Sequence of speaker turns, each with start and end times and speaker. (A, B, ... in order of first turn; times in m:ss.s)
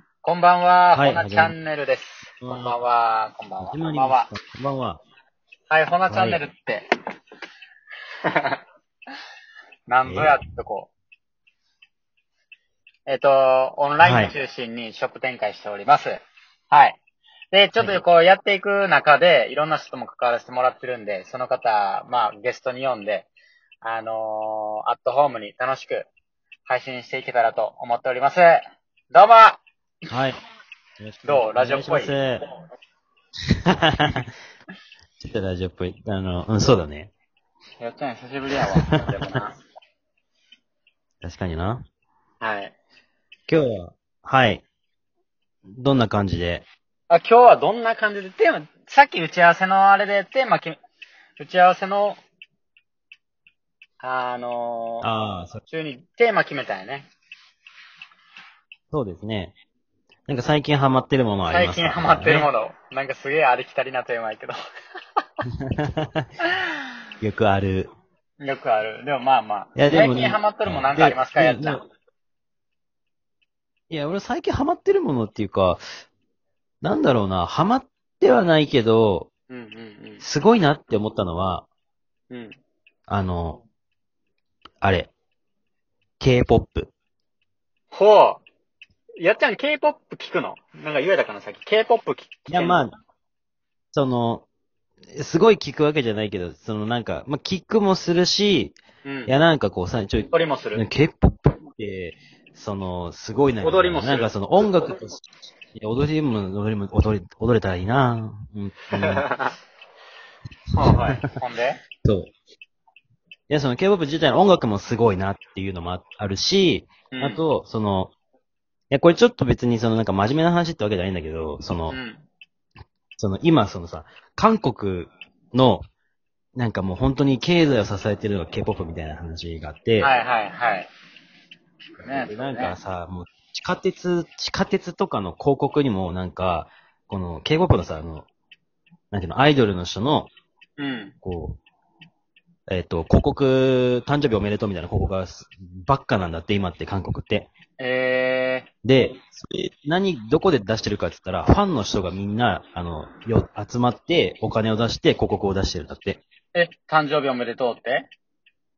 0:00.2-0:04.3 A
0:01.0-0:01.6 B
0:02.4-0:02.8 B
0:03.6-0:05.0 B
0:05.7-0:06.8 A
0:06.1-0:06.4 B
0:08.3-0:08.6 A
0:09.9-0:10.9 A
0:10.0-0:10.4 B
0:13.1-0:16.2 A
0:14.0-0:14.4 B
0:16.7-0:17.0 A
0:17.5-0:23.3 A
0:23.8-0:26.1 A
0:26.7-0:29.6 A
0:30.1-0:30.4 B
0:31.0-0:32.5 B
0:31.2-0:32.2 A
0:33.8-0:34.3 B
0:35.2-0:37.1 B
0:37.8-0:39.6 A
0:38.8-0:39.1 B
0:41.2-0:41.8 B
0:42.4-0:42.7 A
0:43.5-0:44.6 B
0:45.7-0:46.7 B
0:47.1-0:50.8 A
0:51.4-0:52.2 A
0:54.0-0:55.1 A
0:55.0-0:55.6 B
0:55.7-0:57.1 A
0:58.9-0:59.6 B
1:00.3-1:02.5 B
1:01.5-1:04.6 A
1:05.8-1:06.3 B
1:07.2-1:07.9 B
1:08.4-1:11.8 A
1:09.8-1:11.8 B
1:13.9-1:15.8 B
1:16.8-1:19.3 B
1:19.5-1:20.2 A
1:20.2-1:21.7 B
1:22.3-1:22.6 A
1:23.1-1:23.6 B
1:24.8-1:25.1 B
1:26.2-1:26.9 B
1:27.9-1:28.4 A
1:29.2-1:32.8 A
1:32.5-1:32.9 B
1:33.9-1:34.4 B
1:35.1-1:38.8 B
1:39.0-1:39.3 A
1:39.3-1:49.3 B
1:40.3-1:40.8 A
1:43.6-1:44.3 A
1:49.0-1:49.5 A
1:50.7-1:51.2 B
1:50.8-1:51.8 A
1:52.0-1:52.3 B
1:53.5-1:58.1 B
1:57.1-1:57.4 A
1:58.9-2:02.0 B
2:01.9-2:02.2 A
2:03.2-2:05.8 B
2:06.6-2:10.1 B
2:10.0-2:10.9 A
2:12.0-2:12.8 A
2:12.0-2:18.3 B
2:19.1-2:20.3 B
2:20.8-2:21.1 A
2:21.2-2:21.6 B
2:22.7-2:27.5 B
2:27.8-2:28.7 A
2:28.8-2:36.2 B
2:36.5-2:38.1 A